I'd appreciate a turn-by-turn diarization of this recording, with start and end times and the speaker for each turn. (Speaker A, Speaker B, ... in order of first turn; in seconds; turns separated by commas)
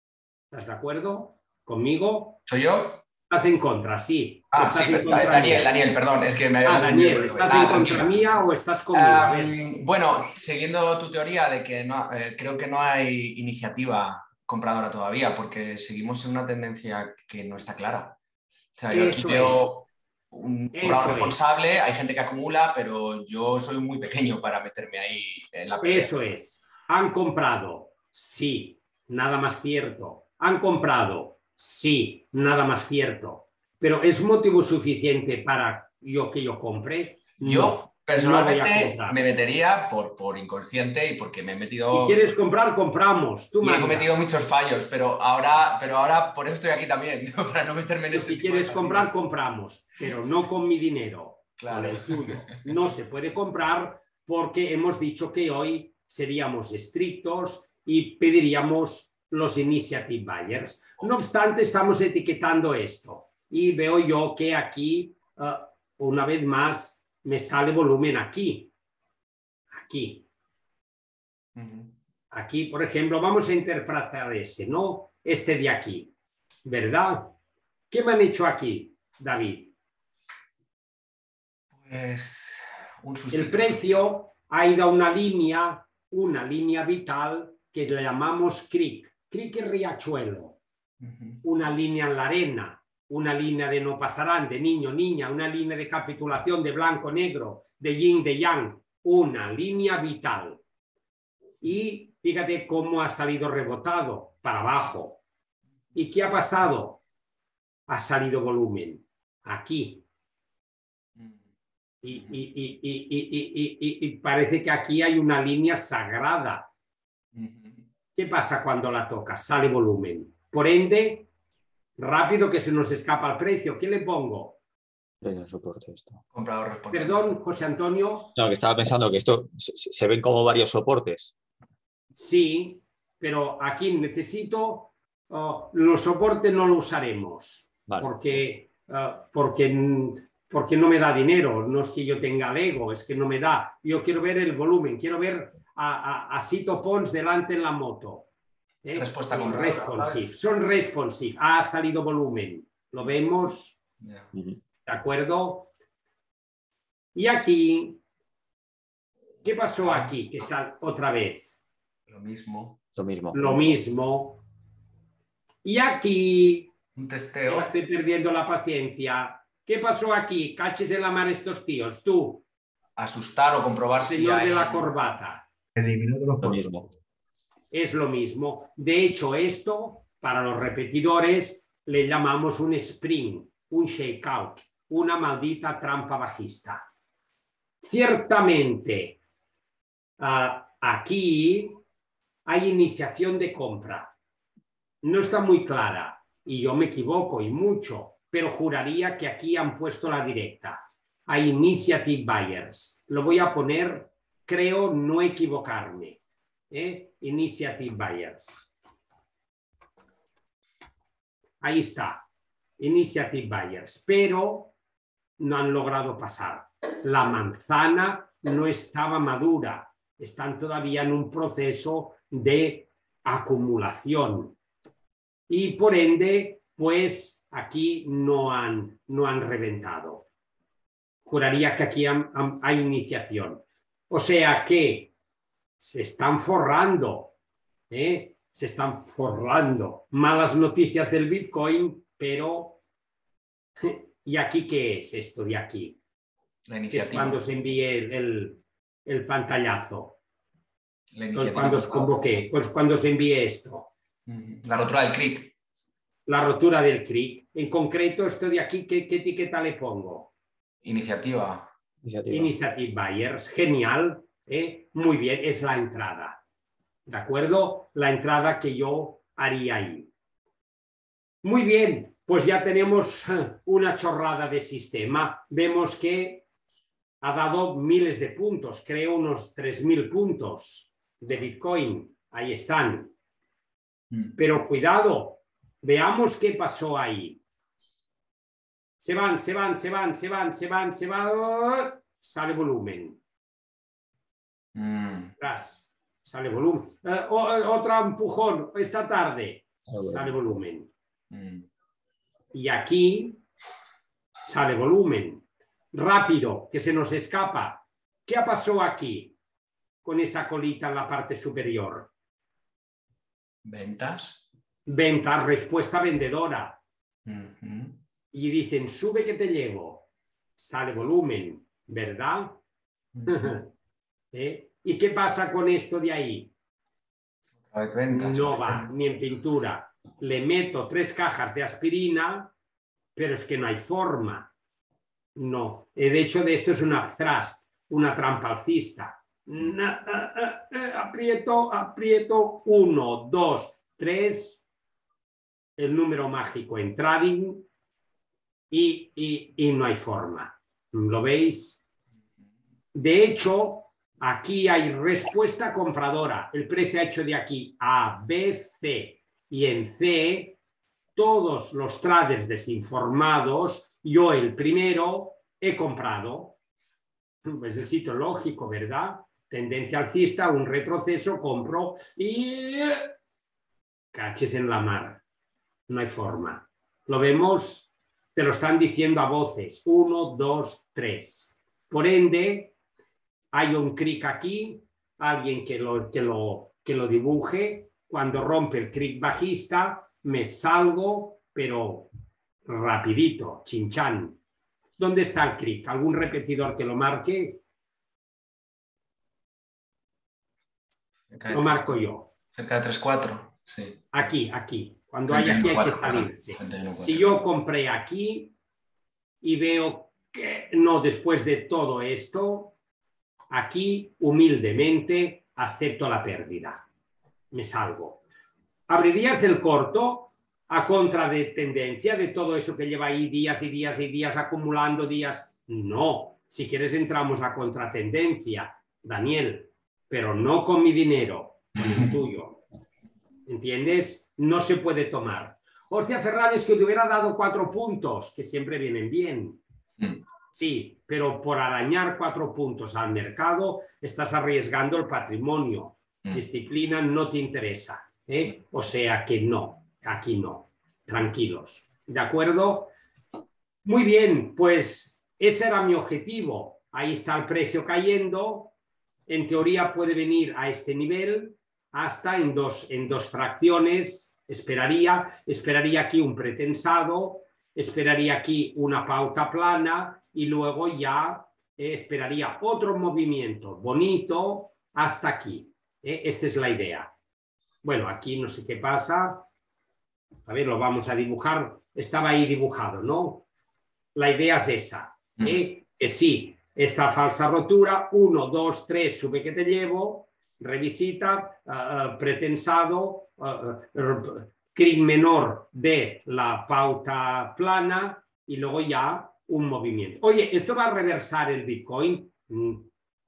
Speaker A: 0.5-2.4, Speaker B: 2.5-3.0, Speaker A: 3.3-5.7, Speaker B: 4.5-8.2, Speaker A: 6.7-9.6, Speaker B: 8.9-18.2, Speaker B: 18.8-26.1, Speaker A: 18.9-19.8, Speaker A: 20.7-21.4, Speaker A: 25.8-39.2, Speaker B: 37.4-42.3, Speaker A: 41.9-44.1, Speaker B: 43.6-49.1, Speaker A: 48.1-68.7, Speaker B: 51.6-52.6, Speaker A: 69.8-70.3, Speaker B: 71.6-71.9, Speaker A: 72.3-76.1, Speaker A: 76.7-77.3, Speaker A: 77.9-79.7, Speaker B: 81.7-83.8, Speaker A: 83.3-90.6, Speaker B: 91.0-91.4, Speaker A: 91.4-100.6, Speaker A: 101.6-105.2, Speaker A: 106.0-107.0, Speaker A: 107.9-110.0, Speaker B: 111.2-111.4, Speaker A: 112.0-116.7, Speaker B: 117.3-117.9, Speaker A: 118.2-121.3, Speaker A: 122.0-124.6, Speaker C: 125.2-126.2, Speaker B: 126.3-127.3, Speaker A: 126.9-128.3, Speaker C: 128.4-131.3, Speaker A: 132.2-148.3, Speaker A: 148.8-153.8, Speaker B: 148.9-150.2, Speaker B: 154.0-154.3, Speaker C: 154.3-154.6, Speaker A: 154.9-155.7, Speaker A: 157.2-158.0, Speaker A: 159.4-161.6, Speaker B: 162.1-162.8, Speaker C: 162.9-163.7, Speaker A: 163.3-164.4, Speaker A: 165.6-166.7, Speaker B: 166.9-167.7, Speaker A: 167.4-172.4, Speaker B: 173.0-174.9, Speaker A: 174.0-175.5, Speaker B: 175.9-176.5, Speaker C: 176.4-176.9, Speaker A: 177.7-186.9, Speaker A: 187.8-189.2, Speaker A: 190.2-191.8, Speaker A: 192.5-194.1, Speaker A: 195.0-206.2, Speaker A: 206.7-208.7, Speaker A: 211.6-212.3, Speaker A: 212.8-214.7, Speaker A: 215.4-224.6, Speaker A: 225.5-230.3, Speaker A: 231.2-235.1, Speaker A: 235.8-237.3, Speaker A: 237.9-242.8, Speaker A: 243.8-246.0, Speaker B: 246.7-247.4, Speaker A: 246.9-250.2, Speaker B: 251.1-252.2, Speaker A: 251.3-253.9, Speaker B: 254.3-255.6, Speaker A: 256.3-260.3, Speaker B: 260.8-261.7, Speaker C: 262.0-262.5, Speaker A: 262.3-266.4, Speaker A: 267.1-270.1, Speaker A: 271.4-276.4, Speaker A: 277.2-283.1, Speaker B: 284.1-284.4, Speaker A: 284.4-287.4, Speaker A: 289.0-293.2, Speaker B: 294.8-295.3, Speaker A: 295.4-300.9, Speaker C: 299.9-300.3, Speaker B: 301.3-301.7, Speaker A: 302.5-303.4, Speaker A: 304.4-309.4, Speaker A: 310.0-312.1, Speaker B: 313.6-314.5, Speaker A: 314.9-316.8, Speaker B: 317.3-318.0, Speaker A: 318.3-322.6, Speaker B: 323.1-323.6, Speaker A: 323.3-323.7, Speaker A: 324.3-326.5, Speaker B: 327.7-328.9, Speaker A: 328.1-332.5, Speaker A: 333.1-334.5, Speaker A: 335.4-344.6, Speaker A: 345.8-347.7, Speaker A: 348.7-351.8, Speaker A: 352.9-360.6, Speaker A: 361.2-366.6, Speaker A: 367.4-373.1, Speaker A: 374.1-375.2, Speaker A: 375.9-382.7, Speaker A: 383.5-392.1, Speaker A: 392.7-394.4, Speaker A: 395.0-397.6, Speaker B: 401.3-401.9, Speaker A: 401.5-402.3, Speaker B: 402.5-404.1, Speaker A: 404.1-408.6, Speaker B: 405.3-407.3, Speaker A: 409.4-412.7, Speaker A: 413.5-416.9, Speaker A: 417.5-418.2, Speaker A: 418.9-432.6, Speaker A: 433.5-439.6, Speaker A: 440.5-452.9, Speaker A: 453.9-458.7, Speaker A: 459.3-477.1, Speaker A: 477.8-479.5, Speaker A: 480.5-483.5, Speaker A: 484.1-502.9